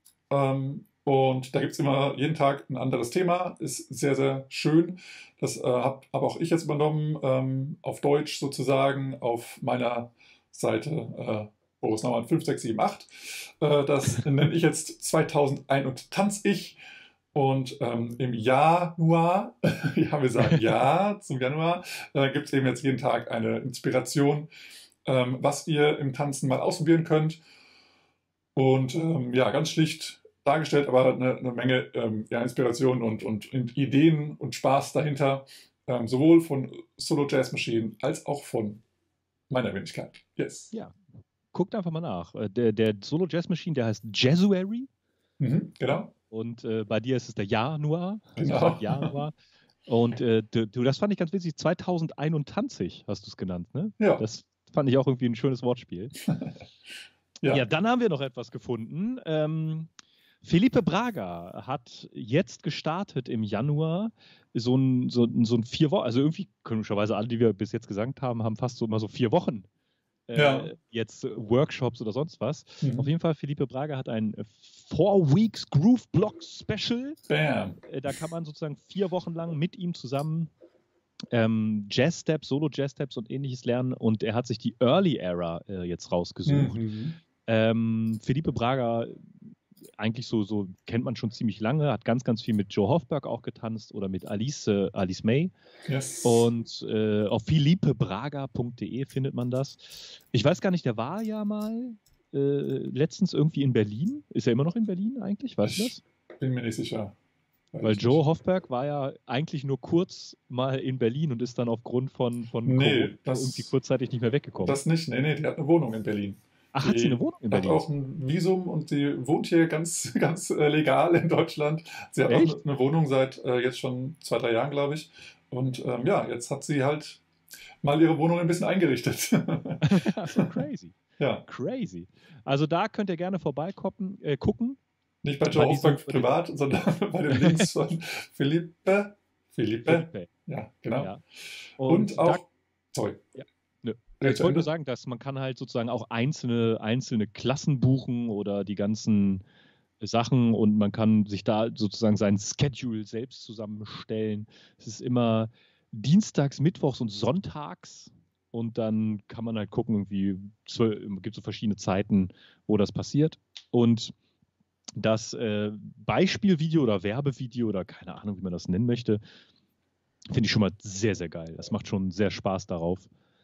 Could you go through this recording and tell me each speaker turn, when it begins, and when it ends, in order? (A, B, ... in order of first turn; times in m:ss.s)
0:00.3-0:16.8 A
0:17.3-0:24.5 A
0:25.0-0:27.4 A
0:28.6-0:38.8 A
0:39.5-0:40.7 A
0:41.5-0:44.9 B
0:45.4-0:46.1 A
0:46.3-0:49.3 B
0:48.4-0:49.2 A
0:49.9-0:56.1 B
0:57.5-0:59.9 B
1:00.4-1:09.7 B
1:10.3-1:17.2 B
1:10.3-1:10.7 A
1:12.8-1:13.1 A
1:17.3-1:17.8 A
1:17.8-1:20.5 B
1:21.3-1:26.8 B
1:26.4-1:27.2 A
1:27.4-1:29.2 B
1:30.0-1:35.5 B
1:35.8-1:36.5 A
1:36.2-1:46.0 B
1:45.6-1:47.1 A
1:47.7-1:48.2 A
1:47.8-1:54.8 B
1:52.6-1:53.7 A
1:54.6-2:07.2 A
1:56.7-1:57.8 B
2:02.3-2:02.6 B
2:07.8-2:10.5 A
2:09.8-2:14.8 B
2:11.2-2:11.4 A
2:15.2-2:21.1 A
2:15.5-2:16.3 B
2:17.3-2:17.7 B
2:19.8-2:20.3 B
2:21.0-2:21.2 B
2:21.8-2:22.4 B
2:21.8-2:23.3 A
2:23.4-2:29.4 B
2:24.2-2:24.7 A
2:30.0-2:44.1 B
2:45.0-2:49.2 B
2:50.3-2:53.1 B